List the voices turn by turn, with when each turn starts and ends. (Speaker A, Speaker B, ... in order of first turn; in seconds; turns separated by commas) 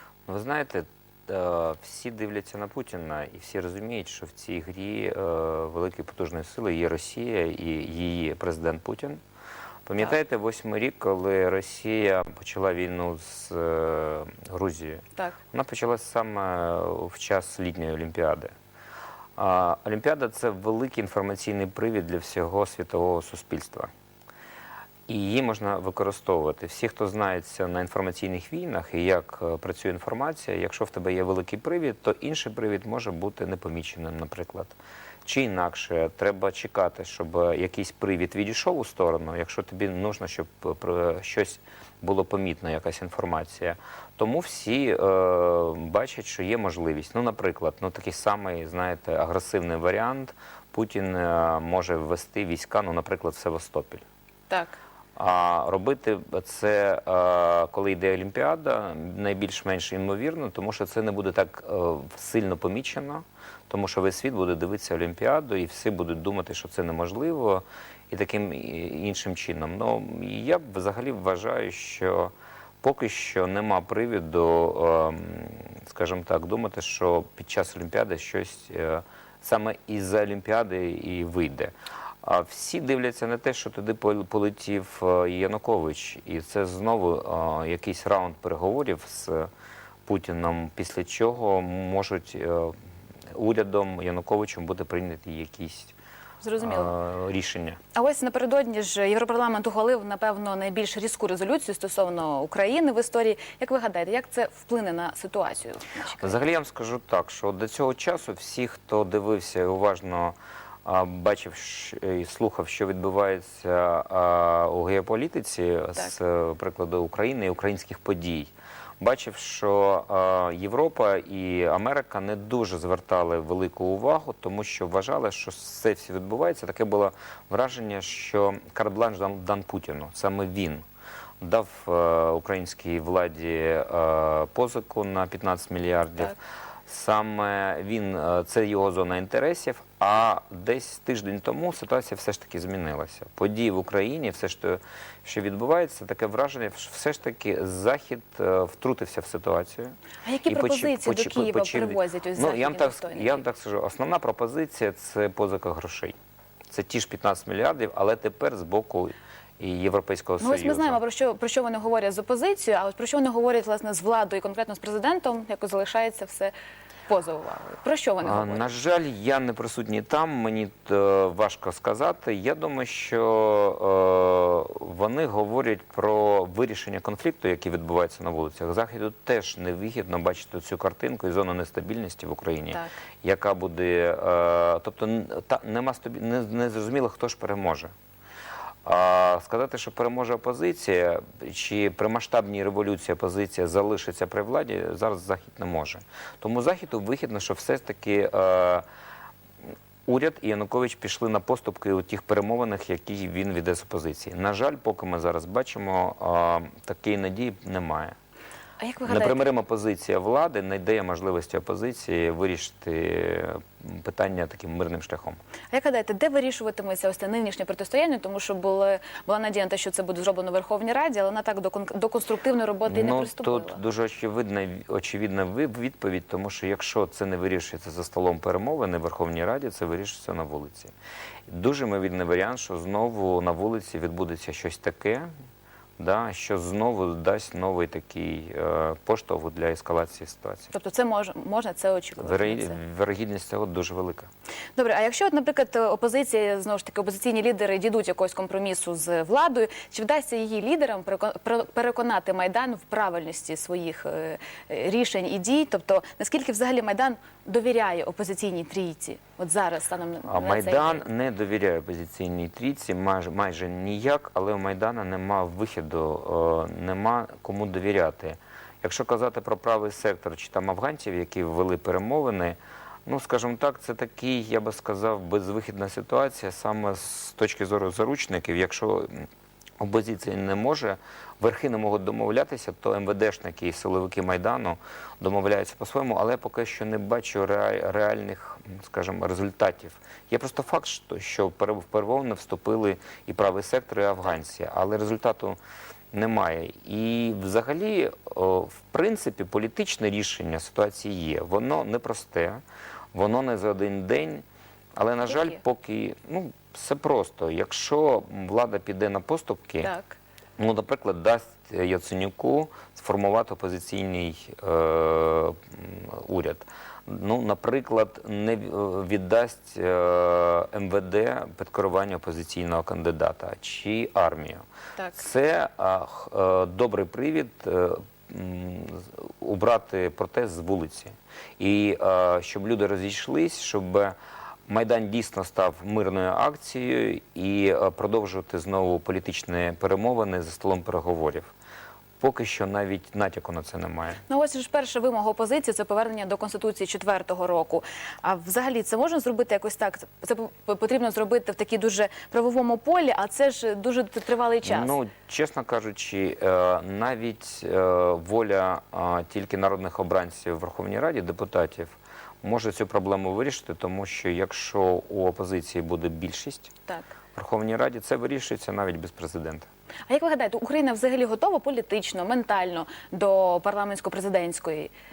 Speaker A: 0.3-9.2, Speaker A: 9.9-18.5, Speaker A: 19.4-23.9, Speaker A: 25.1-54.0, Speaker B: 54.5-54.8, Speaker A: 55.2-89.5, Speaker A: 90.0-92.8, Speaker A: 93.3-95.9, Speaker B: 96.4-96.9, Speaker A: 96.6-97.8, Speaker B: 97.9-106.4, Speaker A: 106.2-130.8, Speaker A: 131.4-156.2, Speaker B: 150.2-153.4, Speaker A: 156.7-161.0, Speaker B: 160.4-166.5, Speaker B: 167.1-168.7, Speaker A: 168.2-187.9, Speaker A: 188.8-198.8, Speaker A: 200.1-208.2, Speaker B: 208.8-209.4, Speaker A: 209.1-215.4, Speaker B: 215.7-223.8, Speaker A: 222.9-230.9, Speaker A: 231.5-235.3, Speaker A: 236.0-240.7, Speaker B: 240.7-242.8, Speaker A: 242.2-244.3, Speaker B: 244.8-261.0, Speaker A: 260.3-279.3, Speaker A: 279.8-295.6, Speaker A: 296.1-302.6, Speaker A: 303.1-304.4, Speaker A: 305.0-309.9, Speaker B: 305.3-305.6, Speaker B: 309.8-310.2, Speaker A: 310.6-324.6, Speaker A: 325.1-334.1, Speaker A: 334.7-341.5, Speaker A: 342.2-344.2, Speaker B: 344.3-355.0, Speaker A: 354.6-366.7, Speaker A: 367.4-369.7, Speaker B: 370.1-374.9